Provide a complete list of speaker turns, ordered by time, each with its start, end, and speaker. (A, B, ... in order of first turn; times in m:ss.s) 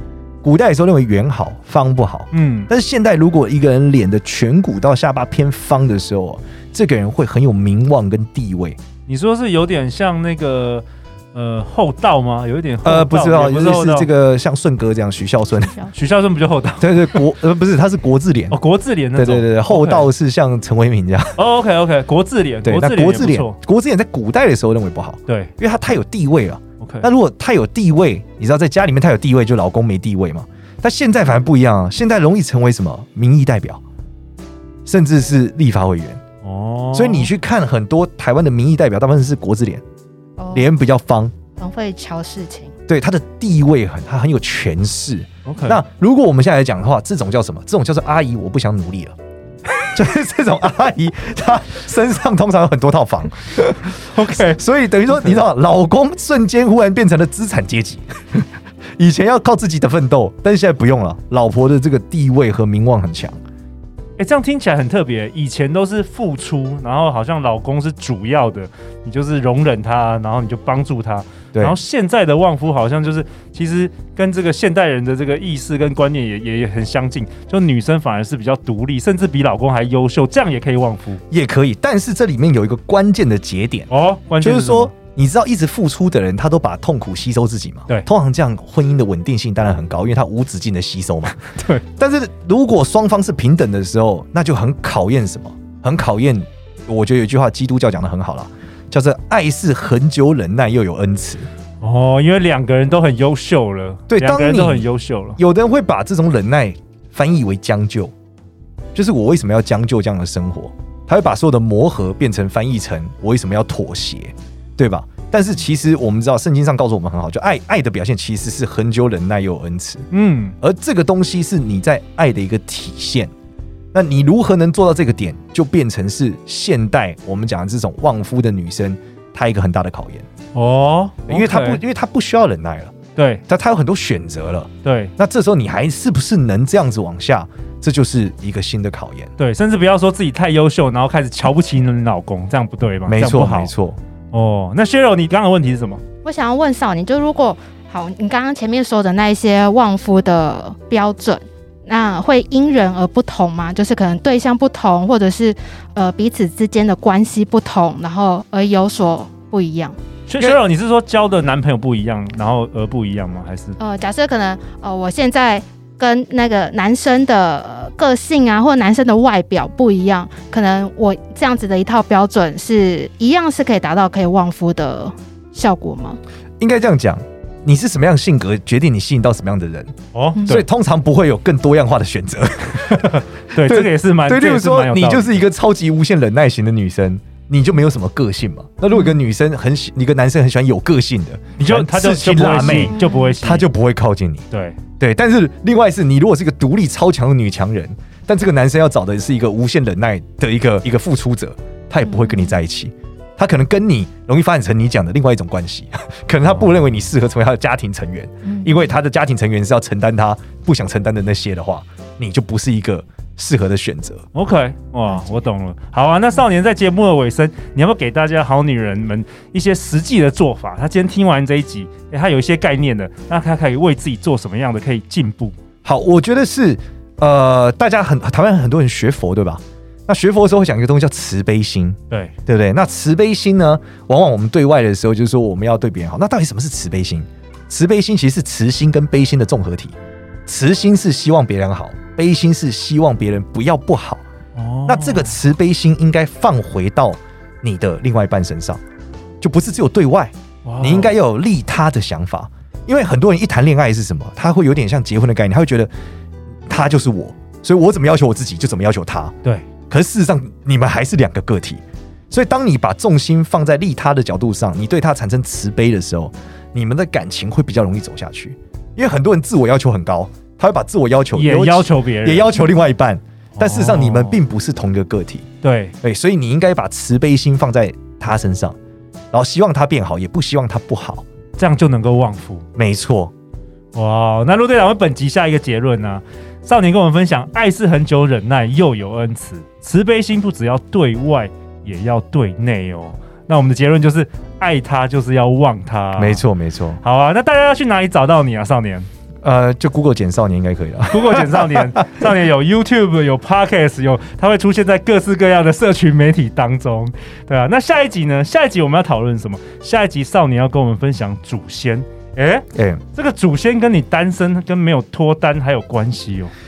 0:00.4-0:08.8 A
0:02.3-0:02.7 B
0:09.1-0:14.1 B
0:12.8-0:15.8 A
0:15.9-0:17.2 B
0:16.8-0:18.6 A
0:18.5-0:20.1 B
0:19.2-0:21.4 A
0:21.4-0:23.6 B
0:22.6-0:33.8 A
0:25.3-0:25.5 B
0:26.8-0:27.1 B
0:34.9-0:36.2 A
0:36.4-0:37.3 B
0:36.9-0:39.8 A
0:40.4-0:40.7 C
0:40.5-0:41.3 A
0:41.6-0:42.7 C
0:42.9-0:49.2 A
0:45.5-0:45.8 B
0:49.8-1:03.4 A
0:54.1-0:55.4 B
1:04.2-1:21.2 B
1:21.3-1:23.9 A
1:23.9-1:24.9 B
1:24.4-1:41.5 A
1:31.4-1:31.8 B
1:41.8-1:45.4 B
1:44.1-1:48.1 A
1:49.0-2:00.1 A
2:00.1-2:00.6 B
2:00.6-2:03.3 A
2:03.9-2:10.3 A
2:10.6-2:11.8 B
2:11.3-2:12.9 A
2:13.2-2:13.4 B
2:13.5-2:19.3 A
2:14.8-2:15.1 B
2:19.4-2:23.7 B
2:23.1-2:24.0 A
2:24.3-2:26.0 B
2:26.2-2:40.0 C
2:40.3-2:43.8 B
2:43.8-2:56.2 C
2:56.6-3:14.4 A
3:00.1-3:00.6 B
3:03.5-3:05.4 B
3:11.6-3:13.7 B
3:12.6-3:13.4 C
3:14.5-3:14.8 B
3:15.0-3:34.2 A
3:22.1-3:22.5 C
3:28.4-3:28.8 C
3:34.3-3:45.6 B
3:45.8-4:04.2 A
4:04.6-4:05.4 B
4:04.9-4:08.8 A
4:09.4-4:15.9 A
4:10.6-4:11.1 B
4:16.7-4:19.4 A
4:19.9-4:35.5 A
4:31.3-4:32.6 B
4:33.6-4:34.4 B
4:35.6-4:35.9 B
4:36.0-4:38.8 A
4:39.3-4:41.2 A
4:41.6-4:42.6 B
4:42.8-4:43.3 A
4:43.9-4:56.4 B
4:56.2-4:57.0 A
4:57.0-4:59.1 B
4:59.4-5:02.2 A
5:01.1-5:16.5 B
5:12.8-5:13.0 A